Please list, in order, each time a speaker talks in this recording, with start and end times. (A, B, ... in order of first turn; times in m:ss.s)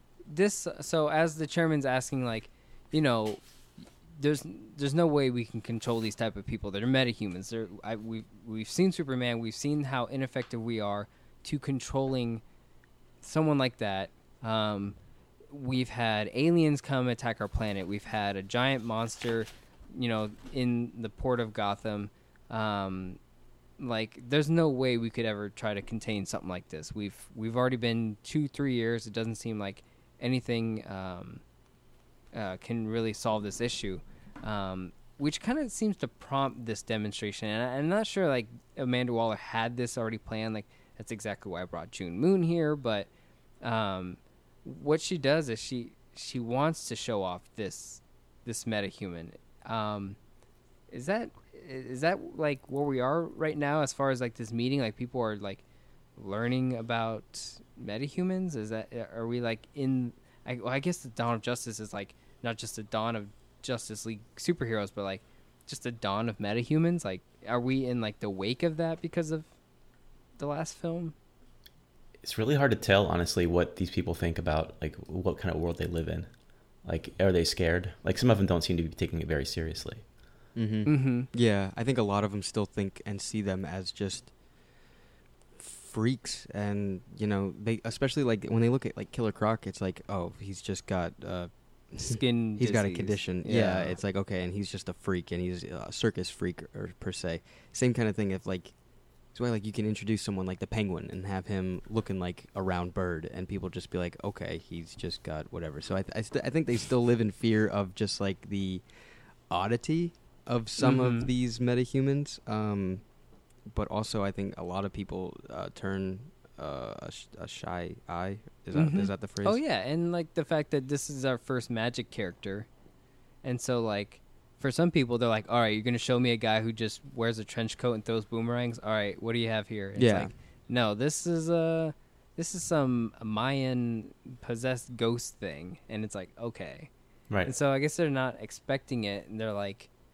0:00.2-0:03.4 A
0:04.2-0:12.4 A
0:13.2-0:15.0 A
0:15.5-0:23.2 A
0:23.8-0:31.4 A
0:32.3-0:43.1 A
0:43.6-0:50.2 A
0:50.9-0:55.6 A
0:56.2-1:09.5 A
1:10.4-1:11.1 A
1:12.2-1:20.1 B
1:20.5-1:24.4 C
1:20.8-1:21.3 A
1:25.6-1:48.9 C
1:32.0-1:34.0 A
1:49.5-1:53.1 C
1:50.8-1:51.3 A
1:53.6-1:59.6 C
1:58.7-2:02.7 A
2:03.4-2:16.9 A
2:09.9-2:10.3 C
2:17.4-2:19.9 A